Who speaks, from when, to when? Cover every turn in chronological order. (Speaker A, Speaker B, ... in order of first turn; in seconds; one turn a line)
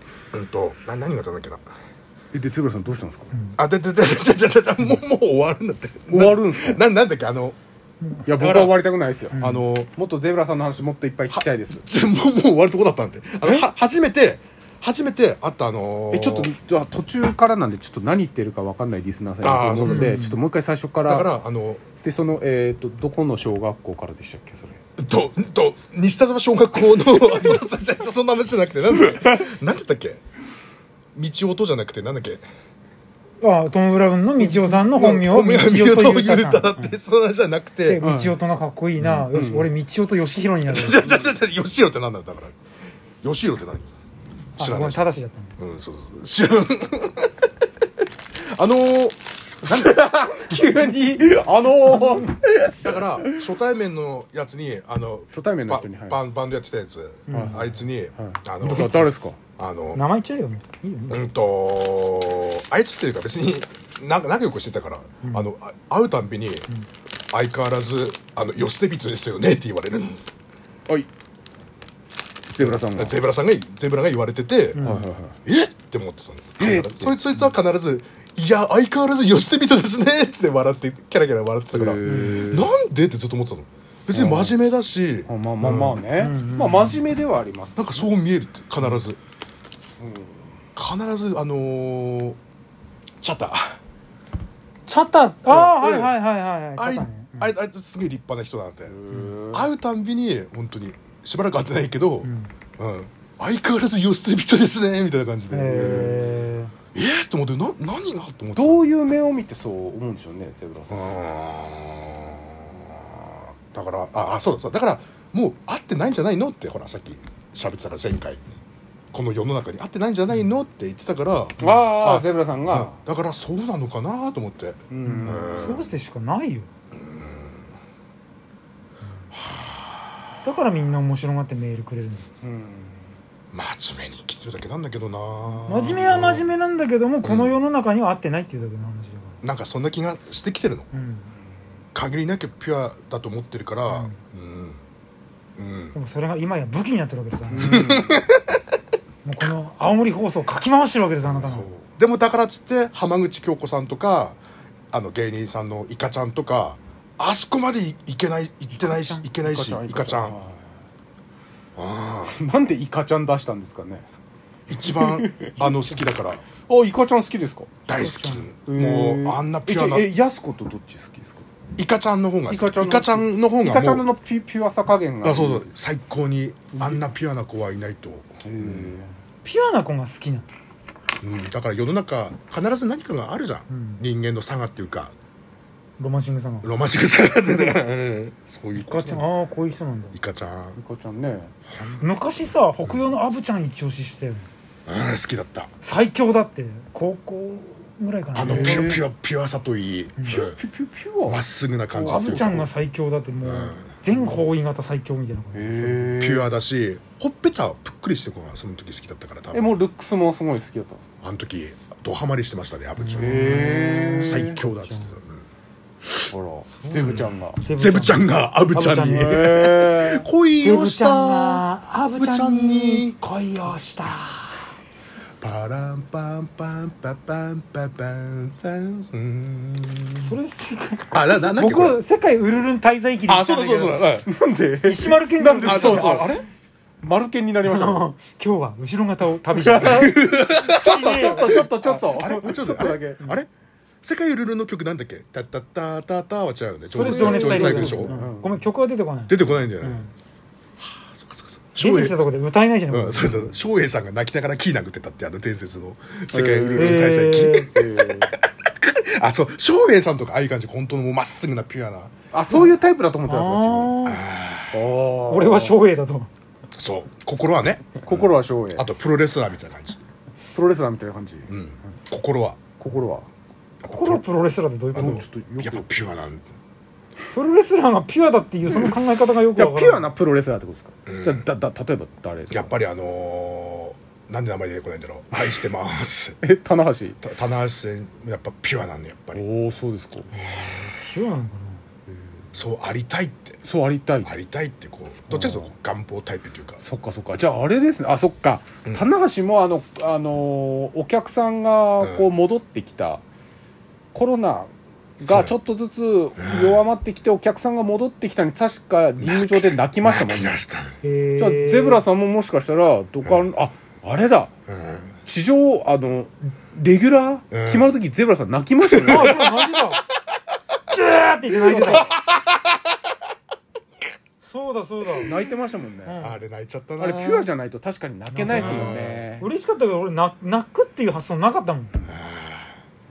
Speaker A: 0.3-1.6
Speaker B: 2.3-3.3
Speaker A: 3.5-7.6
Speaker B: 6.1-6.8
Speaker B: 8.2-9.4
Speaker A: 8.4-8.8
Speaker C: 9.3-9.6
Speaker A: 9.3-9.9
Speaker B: 9.9-11.8
Speaker A: 11.3-16.5
Speaker B: 16.1-21.3
Speaker A: 19.4-20.2
Speaker C: 19.8-20.4
Speaker A: 21.0-21.8
Speaker B: 22.0-24.8
Speaker A: 25.0-30.2
Speaker B: 28.9-29.5
Speaker A: 31.1-32.4
Speaker C: 33.4-37.0
Speaker A: 34.4-38.0
Speaker C: 37.8-41.1
Speaker B: 38.0-38.4
Speaker B: 39.0-39.7
Speaker A: 40.7-42.5
Speaker A: 43.2-43.9
Speaker A: 44.6-45.0
Speaker C: 44.6-45.6
Speaker A: 45.6-47.5
Speaker A: 48.5-49.9
Speaker B: 49.6-53.4
Speaker A: 52.8-60.0
Speaker B: 55.3-56.2
Speaker C: 57.3-57.8
Speaker B: 57.3-59.4
Speaker C: 58.7-58.9
Speaker C: 59.9-61.3
Speaker A: 61.1-66.7
Speaker A: 67.3-70.2
Speaker B: 72.5-73.2
Speaker A: 72.6-74.8
Speaker C: 74.7-75.1
Speaker B: 74.8-75.4
Speaker A: 75.4-86.0
Speaker B: 76.6-77.2
Speaker B: 81.7-82.7
Speaker C: 82.0-82.5
Speaker B: 84.1-84.6
Speaker B: 85.3-88.0
Speaker C: 86.1-87.0
Speaker A: 87.8-89.2
Speaker B: 90.0-90.5
Speaker A: 90.7-92.4
Speaker A: 93.2-93.8
Speaker C: 94.9-97.5
Speaker A: 95.5-96.1
Speaker A: 96.8-99.0
Speaker B: 98.9-99.7
Speaker C: 99.1-99.3
Speaker A: 99.5-106.3
Speaker C: 102.2-102.5
Speaker C: 105.5-106.7
Speaker B: 105.7-106.4
Speaker A: 106.9-108.8
Speaker B: 108.5-111.0
Speaker A: 110.9-118.4
Speaker A: 119.1-125.9
Speaker B: 121.6-123.0
Speaker B: 124.9-125.6
Speaker C: 125.0-126.7
Speaker A: 126.9-127.7
Speaker A: 129.3-130.2
Speaker C: 130.4-132.3
Speaker B: 132.4-133.1
Speaker A: 133.5-136.5
Speaker C: 135.7-139.4
Speaker A: 137.2-137.6
Speaker A: 139.4-140.9
Speaker C: 140.9-141.3
Speaker A: 141.9-144.8
Speaker C: 143.9-144.1
Speaker A: 145.6-145.9
Speaker C: 145.9-148.0
Speaker B: 147.5-148.1
Speaker A: 147.5-148.6
Speaker C: 149.2-151.7
Speaker A: 151.2-154.4
Speaker A: 154.9-160.4
Speaker C: 158.7-159.3
Speaker B: 159.4-160.8
Speaker A: 161.8-162.3
Speaker B: 162.3-164.1
Speaker A: 164.7-166.4
Speaker B: 164.7-166.0
Speaker B: 166.7-167.7
Speaker A: 167.8-170.1
Speaker C: 167.9-168.5
Speaker B: 168.7-171.4
Speaker A: 171.8-174.1
Speaker B: 172.5-175.7
Speaker A: 175.2-178.9
Speaker B: 176.7-177.1
Speaker B: 178.4-179.2
Speaker C: 179.4-180.5
Speaker A: 181.2-185.1
Speaker C: 183.7-184.0
Speaker C: 186.0-186.7
Speaker A: 186.6-189.3
Speaker C: 188.7-190.1
Speaker A: 190.1-190.8
Speaker B: 190.8-191.5
Speaker A: 191.7-192.1
Speaker C: 191.9-194.5
Speaker A: 194.9-195.7
Speaker C: 195.8-199.0
Speaker A: 198.3-200.6
Speaker B: 198.4-199.0
Speaker B: 200.3-202.6
Speaker A: 201.3-202.7
Speaker C: 202.1-206.3
Speaker A: 203.4-203.8
Speaker B: 205.5-206.5
Speaker A: 206.2-209.7
Speaker B: 209.5-211.0
Speaker A: 211.2-213.7
Speaker C: 213.0-215.2
Speaker B: 213.2-214.6
Speaker A: 214.2-215.4
Speaker B: 216.3-217.6
Speaker C: 216.8-219.4
Speaker A: 217.8-223.2
Speaker B: 219.1-220.3
Speaker C: 220.6-224.6
Speaker A: 225.4-230.3
Speaker C: 230.2-234.2
Speaker A: 231.1-232.0
Speaker A: 233.3-234.3
Speaker B: 234.3-236.4
Speaker C: 234.8-236.4
Speaker A: 235.6-236.5
Speaker B: 237.0-238.1
Speaker C: 237.6-241.7
Speaker B: 239.5-243.2
Speaker A: 239.8-243.5
Speaker A: 244.0-248.2
Speaker B: 246.9-248.6
Speaker C: 246.9-250.1
Speaker A: 249.3-250.1
Speaker A: 250.8-252.2
Speaker C: 251.8-253.5
Speaker A: 252.9-262.1
Speaker B: 256.3-257.1
Speaker C: 256.7-257.7
Speaker B: 257.7-258.3
Speaker B: 262.3-263.9
Speaker C: 262.5-264.2
Speaker A: 264.0-264.8
Speaker B: 264.7-265.8
Speaker C: 265.3-266.3
Speaker A: 266.8-268.2
Speaker B: 268.0-268.9
Speaker A: 268.7-270.0
Speaker B: 270.5-271.5
Speaker A: 271.5-272.6
Speaker B: 272.8-273.3
Speaker A: 273.8-274.2
Speaker C: 273.9-275.2
Speaker A: 274.9-276.5
Speaker B: 275.0-276.0
Speaker C: 277.3-280.1
Speaker B: 278.7-279.0
Speaker B: 279.5-282.8
Speaker A: 281.1-281.4
Speaker A: 282.5-286.4
Speaker B: 286.4-287.2
Speaker A: 287.2-289.4
Speaker B: 289.3-290.3
Speaker A: 290.3-291.0
Speaker C: 290.4-291.8
Speaker A: 292.5-293.6
Speaker B: 293.6-294.3
Speaker A: 294.2-296.8
Speaker B: 295.3-295.7
Speaker B: 296.8-303.2
Speaker A: 302.0-302.3
Speaker B: 304.1-310.6
Speaker A: 305.2-305.5
Speaker A: 306.4-306.8
Speaker A: 309.2-310.9
Speaker C: 311.0-312.0
Speaker B: 311.4-314.5
Speaker A: 314.7-315.2
Speaker B: 315.2-319.4
Speaker A: 317.5-317.9
Speaker C: 319.0-320.0
Speaker A: 319.1-319.7
Speaker C: 320.9-322.1
Speaker A: 321.7-322.6
Speaker C: 324.4-325.3
Speaker B: 325.2-326.2
Speaker C: 326.0-326.4
Speaker A: 326.2-327.5
Speaker B: 327.0-329.5
Speaker C: 328.3-331.9
Speaker A: 328.5-329.2
Speaker A: 332.1-332.8